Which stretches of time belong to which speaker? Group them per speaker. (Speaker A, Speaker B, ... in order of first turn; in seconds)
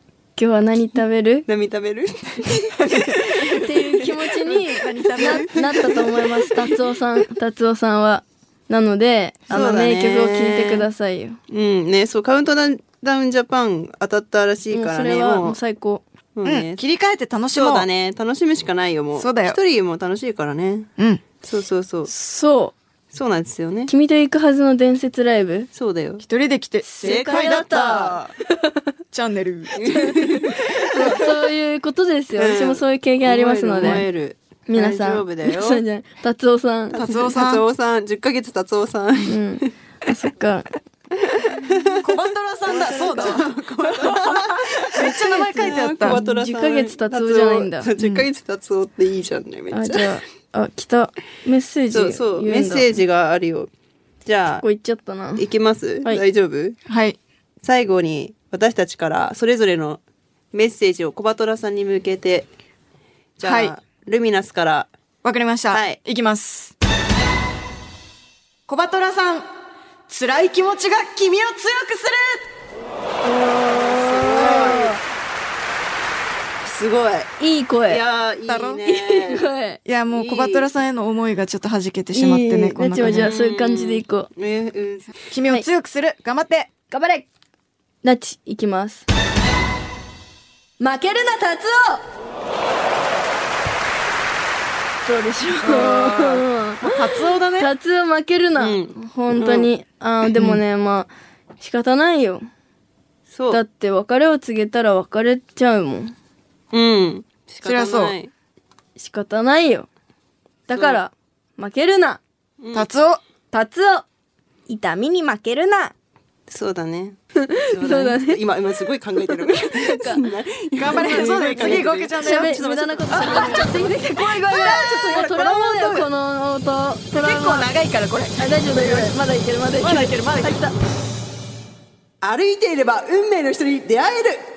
Speaker A: 0.4-1.5, 3.4-11.4, 14.7-16.0, 22.1-22.8, 23.9-25.7, 26.9-28.8, 29.9-30.1, 30.9-34.1, 34.7-37.0, 39.3-40.7, 42.7-43.4, 45.0-47.9, 49.7-52.9, 54.6-55.4, 73.2-75.0, 77.4-78.0, 78.9-79.8, 82.1-84.3, 86.9-87.3, 88.0-89.1, 90.8-92.0, 95.1-97.0, 97.6-101.1, 101.6-102.5, 103.5-106.1, 109.0-109.9, 110.7-112.2, 113.5-114.0, 114.7-115.9, 117.4-118.4, 119.3-120.2, 120.9-127.7, 128.4-130.7
Speaker B: 1.5-3.3, 5.3-5.6, 9.5-10.8, 11.5-15.6, 16.4-16.8, 17.5-20.9, 21.4-22.1, 23.1-23.9, 25.8-26.2, 27.0-28.3, 29.8-31.2, 32.4-35.8, 36.9-39.7, 41.5-42.1, 42.8-50.1, 51.9-53.7, 54.2-54.6, 55.4-56.8, 57.6-60.0, 60.5-62.5, 63.4-64.9, 65.7-66.0, 73.7-75.0, 76.6-77.3, 77.9-79.5, 80.1-80.7, 83.0-85.1, 98.6-99.7, 103.3-103.6, 106.7-108.3, 110.7-111.0, 112.6-112.9, 116.5-123.9, 132.2-134.4
Speaker C: 2.8-3.6, 4.5-5.9, 16.4-17.9, 19.1-19.6, 26.2-28.2, 29.1-30.1, 37.0-37.6, 42.0-46.2, 48.0-48.3, 56.9-57.2, 63.4-63.7, 65.2-66.8, 68.7-69.5, 70.1-72.5, 78.5-78.8, 79.9-83.3, 85.2-86.7, 95.7-97.7, 100.3-100.6, 107.6-108.2, 112.7-113.2, 120.8-126.1, 127.1-129.2, 129.8-130.6